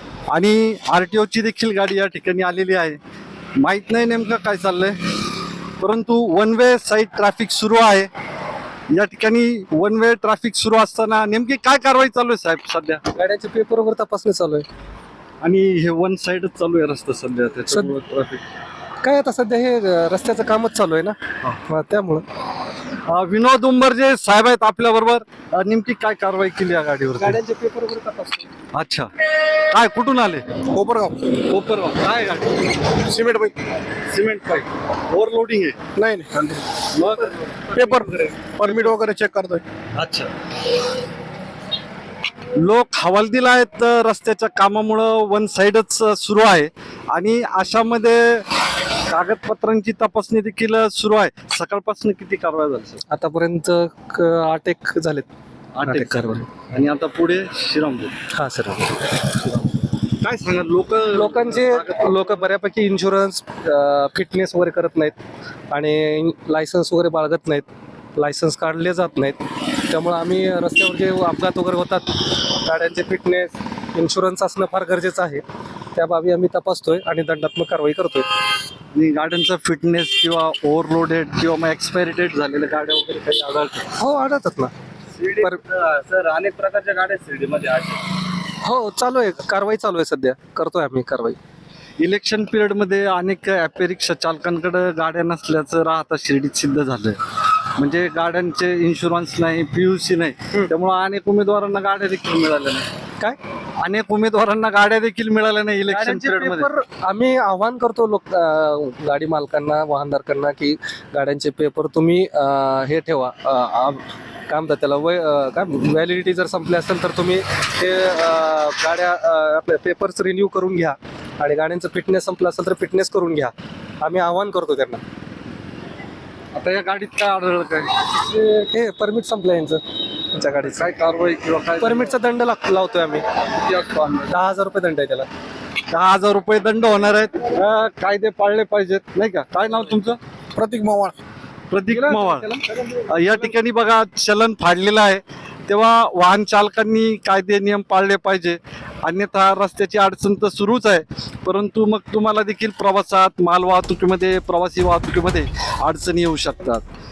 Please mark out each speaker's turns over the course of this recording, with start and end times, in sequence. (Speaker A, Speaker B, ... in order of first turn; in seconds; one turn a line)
Speaker A: 0.3-3.0
Speaker A: 3.6-8.1
Speaker A: 8.9-13.0
Speaker B: 13.1-14.7
Speaker A: 15.4-18.4
Speaker B: 19.0-22.2
Speaker A: 22.9-27.4
Speaker B: 27.2-28.5
Speaker A: 28.7-30.5
Speaker C: 30.7-31.4
Speaker A: 31.4-32.8
Speaker C: 33.0-33.6
Speaker A: 34.1-35.9
Speaker C: 36.0-36.7
Speaker A: 36.9-38.1
Speaker C: 37.7-39.6
Speaker A: 40.0-40.3
Speaker A: 42.5-53.0
Speaker B: 53.1-55.3
Speaker A: 55.8-58.2
Speaker B: 55.8-56.5
Speaker B: 58.3-59.0
Speaker A: 59.4-62.5
Speaker B: 61.1-65.2
Speaker B: 65.7-75.4
Speaker B: 76.0-78.3
Speaker A: 78.9-83.9
Speaker B: 84.0-84.7
Speaker A: 85.2-88.0
Speaker B: 88.6-91.4
Speaker A: 92.0-102.9
Speaker A: 103.8-106.7
Speaker B: 105.9-125.0
Speaker A: 126.5-128.4
Speaker B: 128.4-129.8
Speaker B: 130.3-130.9
Speaker A: 130.8-132.2
Speaker B: 131.8-133.2
Speaker A: 133.6-134.3
Speaker B: 134.2-135.3
Speaker A: 135.9-140.2
Speaker C: 140.6-141.2
Speaker A: 141.7-156.8
Speaker B: 142.3-142.7